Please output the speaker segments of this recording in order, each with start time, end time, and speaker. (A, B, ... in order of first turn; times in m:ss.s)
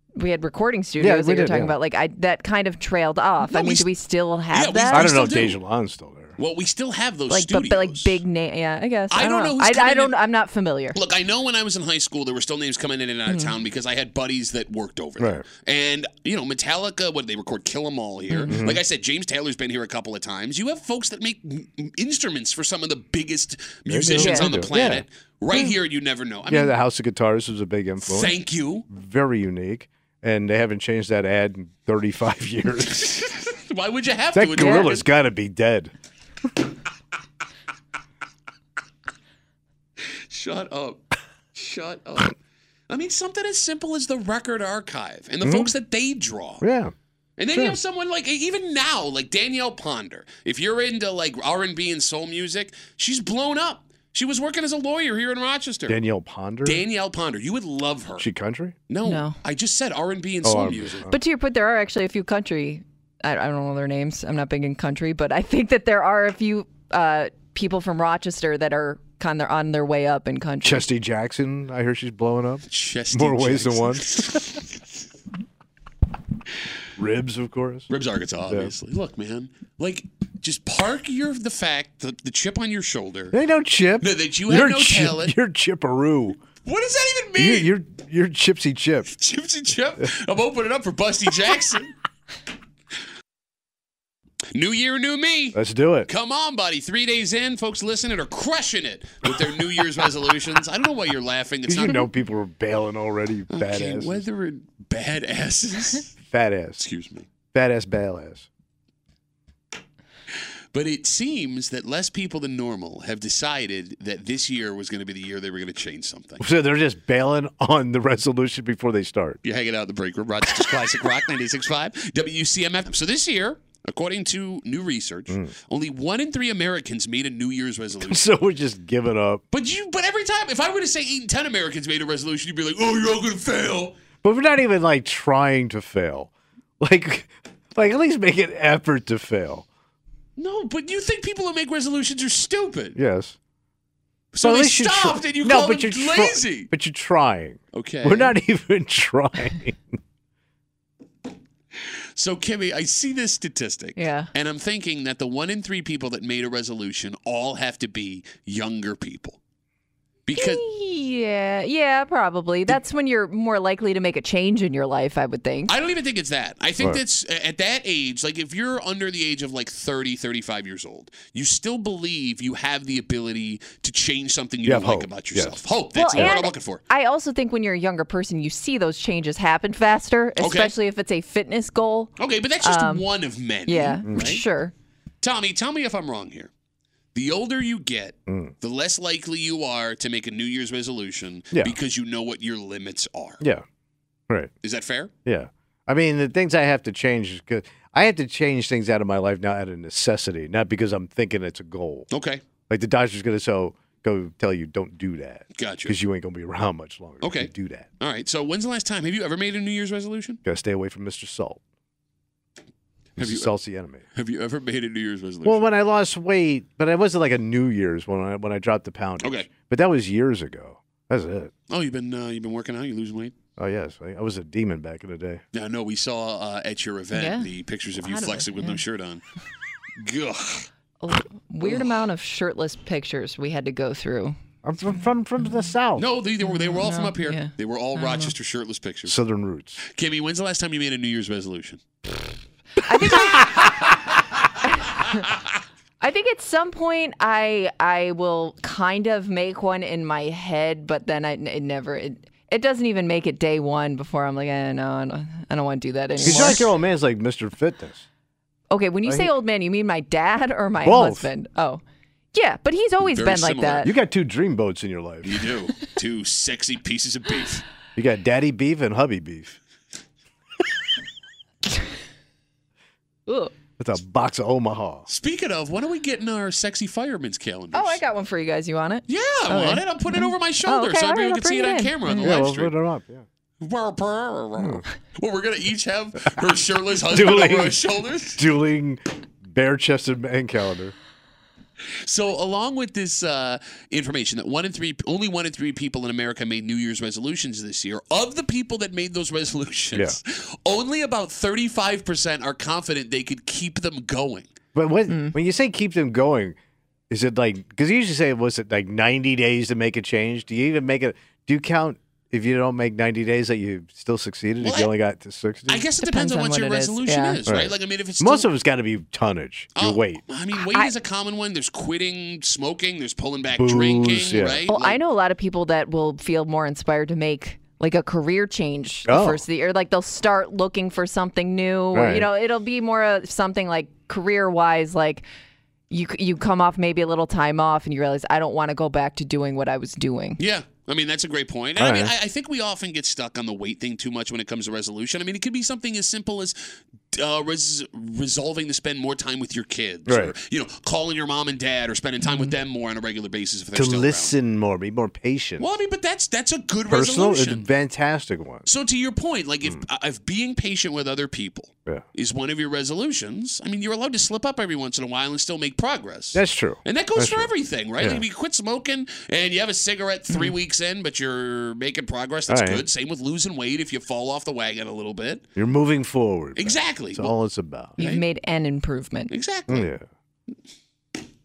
0:00.2-0:05.1 A
0:01.0-0:01.8 B
0:03.4-0:03.9 C
0:04.5-0:05.6 C
0:04.9-0:06.4 B
0:06.4-0:08.2 C
0:07.3-0:11.0 A
0:09.1-0:10.1 C
0:10.9-0:26.8 C
0:15.2-0:15.5 B
0:18.5-0:18.8 B
0:23.9-0:25.0 B
0:24.2-0:24.6 A
0:26.5-0:28.3 B
0:28.0-0:28.9 C
0:28.9-0:33.2 B
0:33.0-0:35.1 C
0:34.3-0:35.9 B
0:34.6-0:34.9 A
0:40.1-0:41.0 C
0:41.6-0:42.4 C
0:42.9-0:46.6 C
0:45.4-0:45.7 B
0:46.6-0:46.9 B
0:47.4-0:56.0 C
0:55.9-0:56.8 B
0:56.6-0:58.3 C
0:58.2-0:58.8 B
0:58.9-1:01.1 C
0:59.0-0:59.4 A
1:00.4-1:01.2 B
1:01.1-1:10.9 A
1:10.6-1:14.2 B
1:12.7-1:14.6 C
1:17.0-1:17.9 B
1:17.9-1:23.4 C
1:23.3-1:26.4 B
1:24.0-1:25.3 C
1:26.6-1:27.7 C
1:27.4-1:29.1 B
1:29.2-1:31.9 C
1:34.5-1:42.1 C
1:35.5-1:36.1 B
1:41.7-1:44.2 B
1:43.5-1:46.1 C
1:46.2-1:46.8 B
1:46.8-1:47.3 C
1:47.5-1:48.5 B
1:50.7-1:56.4 C
1:56.4-1:59.4 B
1:59.4-2:08.2 C
2:08.0-2:09.4 B
2:09.5-2:13.9 C
2:14.2-2:19.6 B
2:20.4-2:23.0 C
2:23.0-2:23.4 B
2:24.3-2:26.7 C
2:24.4-2:29.8 B
2:27.7-2:28.3 C
2:32.2-2:39.4 C
2:34.0-2:34.3 A
2:40.3-2:40.6 C
2:40.4-2:45.7 A
2:45.7-2:56.8 C
2:54.6-2:55.6 B
2:55.9-3:02.1 A
3:00.4-3:00.7 C
3:02.2-3:04.4 C
3:02.6-3:03.0 A
3:03.7-3:04.7 A
3:04.1-3:04.4 B
3:05.2-3:06.5 C
3:07.2-3:13.4 C
3:08.3-3:08.5 B
3:14.6-3:15.1 C
3:15.2-3:22.1 B
3:22.1-3:22.4 C
3:22.7-3:27.9 B
3:25.6-3:26.0 C
3:27.2-3:30.4 C
3:30.4-3:31.6 B
3:33.2-3:33.5 C
3:33.2-3:34.0 B
3:34.2-3:35.7 C
3:35.4-3:41.5 B
3:39.2-3:39.5 C
3:41.7-3:43.3 C
3:43.6-3:45.4 B
3:45.5-3:49.2 C
3:47.1-3:48.8 A
3:50.0-3:50.7 C
3:51.0-3:54.4 A
3:54.6-3:56.1 B
3:56.0-3:59.2 C
3:56.4-3:58.3 A
3:59.1-3:59.8 B
3:59.8-4:01.8 C
4:02.8-4:03.5 A
4:04.6-4:05.2 A
4:06.0-4:16.6 A
4:16.2-4:16.6 C
4:16.2-4:18.1 B
4:18.7-4:21.8 A
4:20.8-4:21.3 B
4:22.3-4:23.9 A
4:23.0-4:23.9 C
4:23.8-4:25.5 B
4:25.2-4:27.6 C
4:28.0-4:29.6 B
4:33.3-4:33.5 A
4:33.8-4:35.1 B
4:35.1-4:38.0 C
4:37.7-4:42.4 A
4:39.1-4:42.8 C
4:42.2-4:43.2 B
4:43.6-4:48.4 C
4:44.6-4:44.8 B
4:47.1-4:47.8 B
4:48.3-4:50.9 B
4:52.0-5:04.5 C
5:04.7-5:06.6 B
5:05.1-5:05.4 A
5:07.1-5:15.8 B
5:14.6-5:14.9 C
5:15.7-5:18.5 C
5:16.0-5:17.4 A
5:17.5-5:20.2 B
5:19.8-5:25.0 C
5:20.5-5:20.9 A
5:23.5-5:24.6 B
5:24.7-5:35.2 A
5:29.1-5:29.4 B
5:31.9-5:32.3 B
5:35.9-5:40.4 A
5:40.4-5:46.6 C
5:41.8-5:42.1 B
5:47.1-5:54.3 C
5:50.1-5:50.3 B
5:52.2-5:52.5 A
5:53.8-5:55.7 B
5:55.6-5:57.7 C
5:56.9-5:58.6 B
5:58.6-6:15.4 C
6:06.3-6:08.2 B
6:10.3-6:10.5 A
6:12.5-6:12.8 B
6:15.6-6:18.0 B
6:16.6-6:17.3 C
6:18.0-6:19.3 A
6:18.0-6:18.2 C
6:19.3-6:19.9 C
6:19.7-6:20.0 B